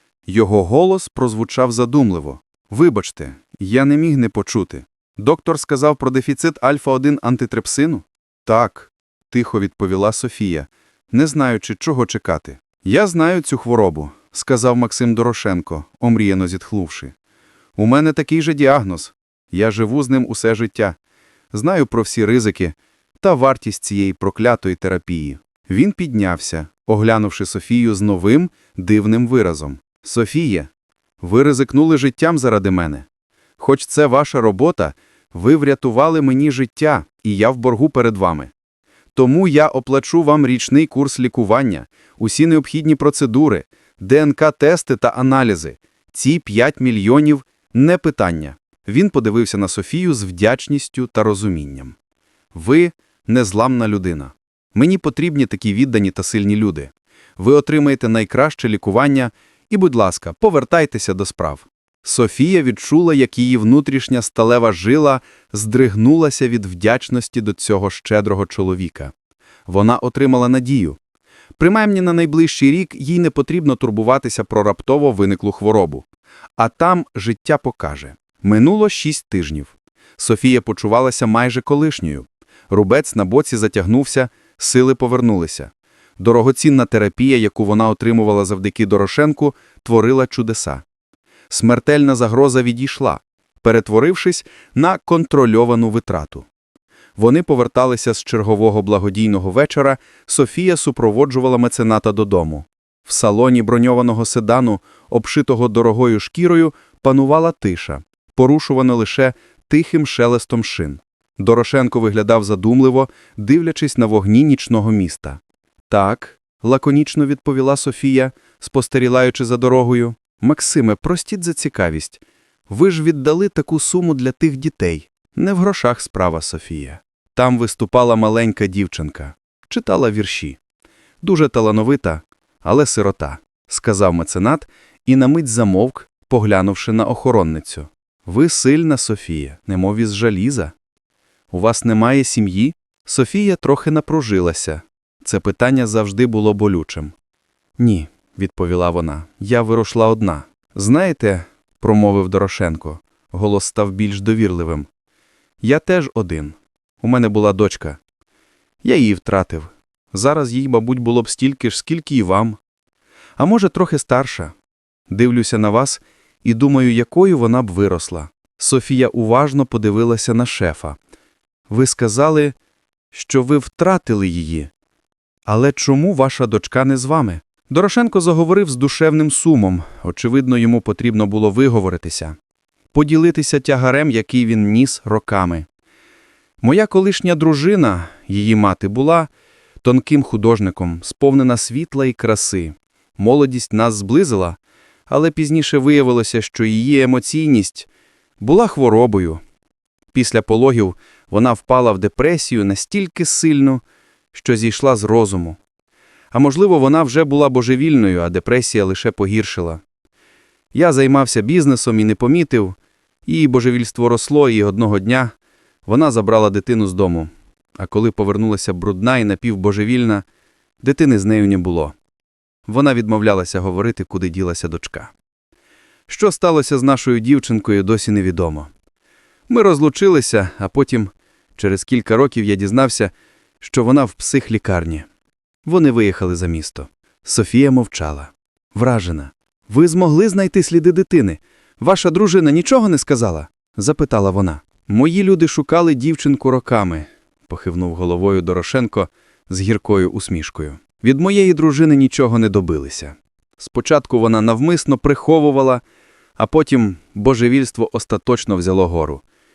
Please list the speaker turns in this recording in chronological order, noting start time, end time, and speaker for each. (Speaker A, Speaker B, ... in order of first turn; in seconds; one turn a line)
Speaker A: 0.3-17.1
Speaker A: 17.8-21.0
Speaker A: 21.5-30.7
Speaker A: 31.2-33.1
Speaker A: 33.6-38.5
Speaker A: 39.1-52.0
Speaker A: 52.5-69.1
Speaker A: 69.7-71.0
Speaker A: 71.6-76.0
Speaker A: 76.6-90.8
Speaker A: 91.5-96.5
Speaker A: 97.2-130.6
Speaker A: 131.2-140.7
Speaker A: 141.5-147.1
Speaker A: 147.8-154.9
Speaker A: 155.6-158.0
Speaker A: 158.8-162.6
Speaker A: 163.4-164.5
Speaker A: 165.1-171.0
Speaker A: 171.7-172.6
Speaker A: 173.1-174.7
Speaker A: 175.4-182.3
Speaker A: 182.9-185.7
Speaker A: 186.6-189.3
Speaker A: 189.8-194.6
Speaker A: 195.1-197.9
Speaker A: 198.4-199.4
Speaker A: 200.1-203.8
Speaker A: 204.3-205.6
Speaker A: 206.3-209.8
Speaker A: 210.7-215.3
Speaker A: 215.8-220.2
Speaker A: 220.8-221.9
Speaker A: 222.7-225.1
Speaker A: 226.1-228.7
Speaker A: 229.5-235.1
Speaker A: 235.7-255.8
Speaker A: 256.4-259.2